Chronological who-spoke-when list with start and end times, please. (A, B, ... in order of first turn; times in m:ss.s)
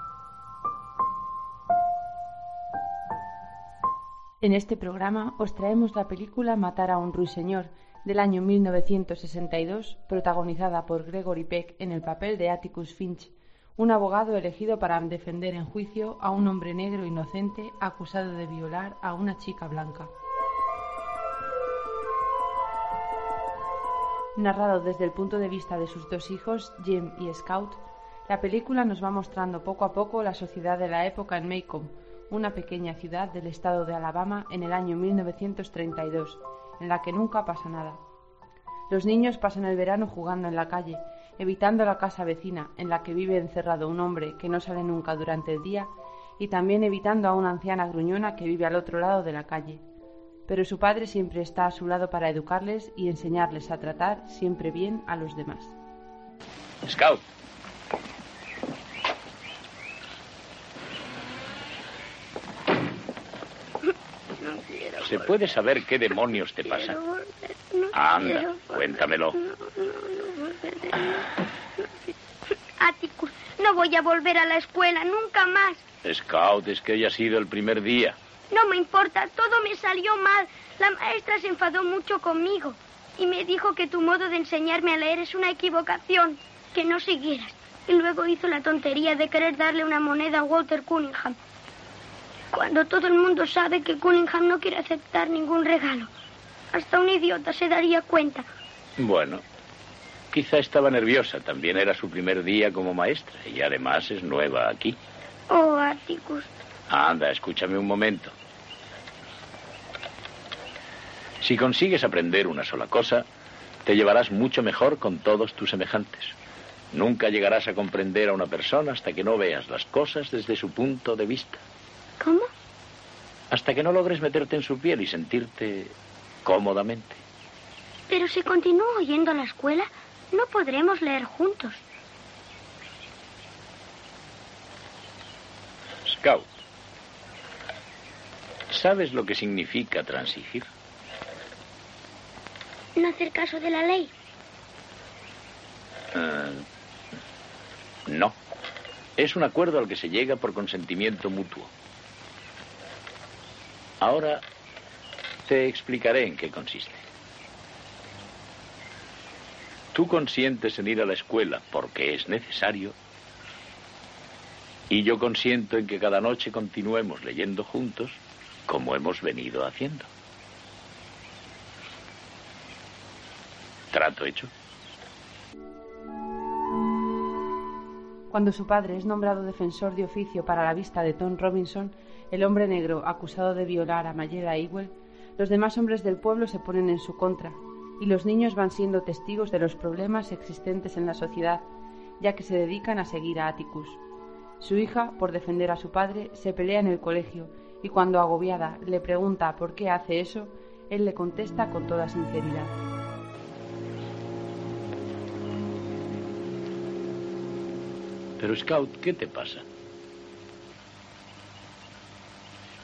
0:04.4-0:20.1 A
0:24.3-0:38.0 A
0:38.9-0:49.8 A
0:50.5-0:55.8 A
0:56.8-0:57.2 B
1:04.4-1:05.4 C
1:05.0-1:07.0 B
1:06.6-1:11.8 C
1:07.9-1:09.4 B
1:12.8-1:15.8 C
1:16.0-1:18.2 B
1:18.5-1:31.4 C
1:32.5-1:36.1 C
1:36.7-1:38.5 C
1:39.0-1:39.4 B
1:40.3-1:45.0 B
1:45.5-1:46.5 C
1:46.9-1:48.3 B
1:51.4-1:53.2 B
1:53.8-1:56.4 B
1:56.9-2:01.6 B
2:02.2-2:02.5 C
2:03.5-2:07.2 B
2:08.1-2:11.8 C
2:16.0-2:16.5 B
2:18.7-2:20.7 B
2:23.0-2:24.1 C
2:26.1-2:26.6 B
2:28.1-2:28.4 B
2:29.2-2:31.7 B
2:34.0-2:34.4 B
2:35.5-2:37.0 B
2:39.9-2:43.0 B
2:44.9-2:50.1 B
2:53.9-2:54.5 B
2:58.3-3:11.6 A
3:12.2-3:14.0 A
3:14.6-3:22.8 A
3:28.4-3:29.6 B